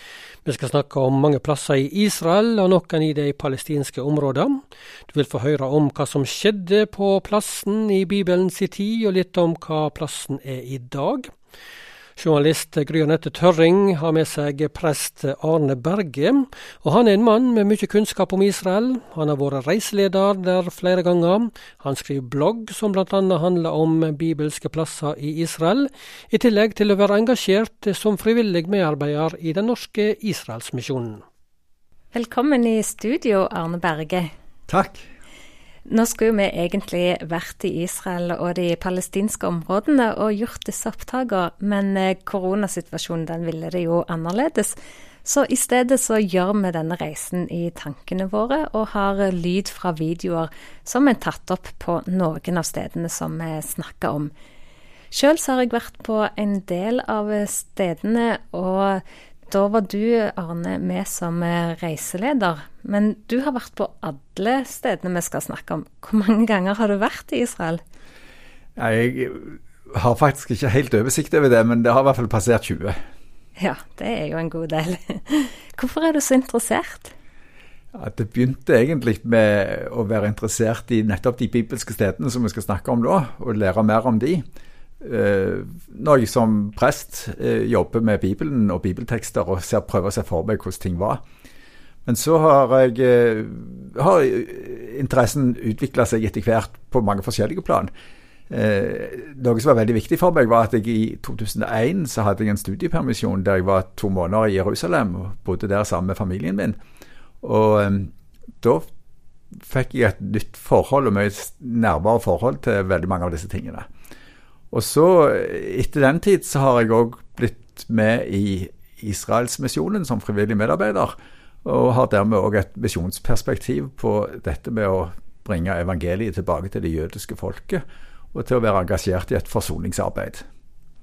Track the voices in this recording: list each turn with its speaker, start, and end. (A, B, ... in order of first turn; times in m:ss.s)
0:00.4-0:04.6 A
0:05.1-0:11.3 A
0:12.2-0:31.2 A
0:32.1-0:34.3 B
0:34.7-0:35.0 C
0:35.9-0:54.3 B
0:55.1-1:07.8 B
1:08.8-1:13.0 C
1:13.6-1:17.1 B
1:17.9-1:24.4 C
1:25.0-1:31.2 C
1:32.0-1:37.9 C
1:38.5-1:46.8 C
1:47.4-1:48.9 C
1:49.6-1:53.9 C
1:54.7-2:07.8 C
2:08.3-2:10.4 C